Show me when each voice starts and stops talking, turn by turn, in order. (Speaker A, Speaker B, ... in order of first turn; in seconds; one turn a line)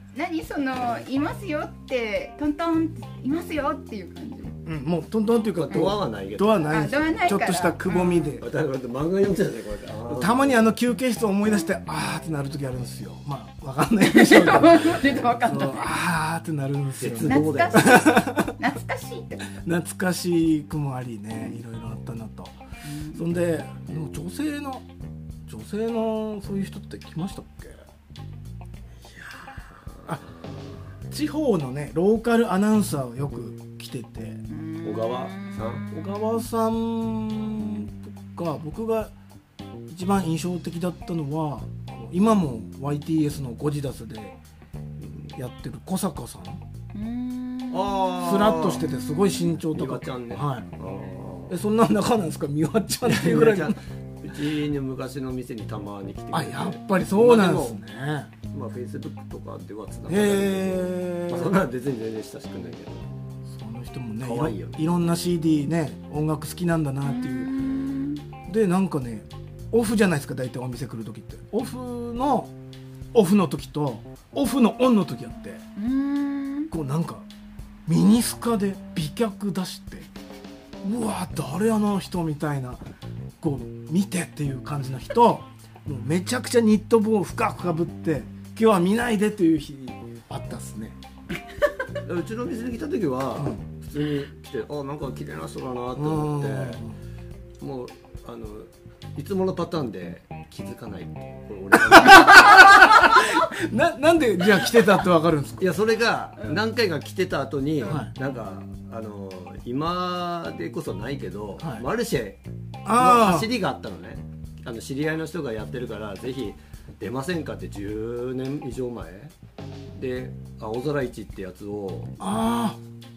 Speaker A: 0.1-4.6
Speaker B: 4.7-8.5
Speaker C: 5.5-7.4
Speaker A: 5.7-6.0
Speaker A: 6.7-8.3
Speaker C: 8.4-10.7
Speaker B: 10.1-18.6
Speaker A: 14.0-15.9
Speaker C: 17.0-18.2
Speaker A: 17.3-19.5
Speaker B: 19.6-22.6
Speaker A: 22.9-23.2
Speaker B: 23.1-24.9
Speaker B: 25.5-27.8
Speaker B: 31.1-34.4
Speaker A: 34.5-36.5
Speaker C: 34.8-36.0
Speaker B: 35.9-39.1
Speaker B: 39.9-44.4
Speaker C: 45.0-45.3
Speaker B: 45.3-46.6
Speaker A: 46.9-48.2
Speaker C: 47.7-48.9
Speaker B: 48.2-50.7
Speaker A: 48.8-49.5
Speaker C: 49.7-51.6
Speaker B: 51.5-53.8
Speaker C: 53.0-57.8
Speaker B: 56.3-58.3
Speaker C: 58.5-63.1
Speaker B: 60.1-61.6
Speaker B: 63.5-67.5
Speaker C: 64.2-64.9
Speaker A: 67.1-68.2
Speaker B: 68.5-72.5
Speaker B: 73.1-75.6
Speaker A: 75.8-76.7
Speaker B: 76.7-77.2
Speaker B: 77.9-80.1
Speaker B: 80.8-82.8
Speaker B: 83.4-91.0
Speaker C: 92.0-96.8
Speaker B: 93.4-93.6
Speaker B: 96.0-97.0
Speaker C: 97.6-102.8
Speaker B: 101.9-105.7
Speaker C: 105.6-112.4
Speaker B: 107.8-108.1
Speaker B: 111.6-111.9
Speaker B: 112.8-113.5
Speaker C: 112.9-119.3
Speaker C: 120.0-122.2
Speaker B: 122.2-122.8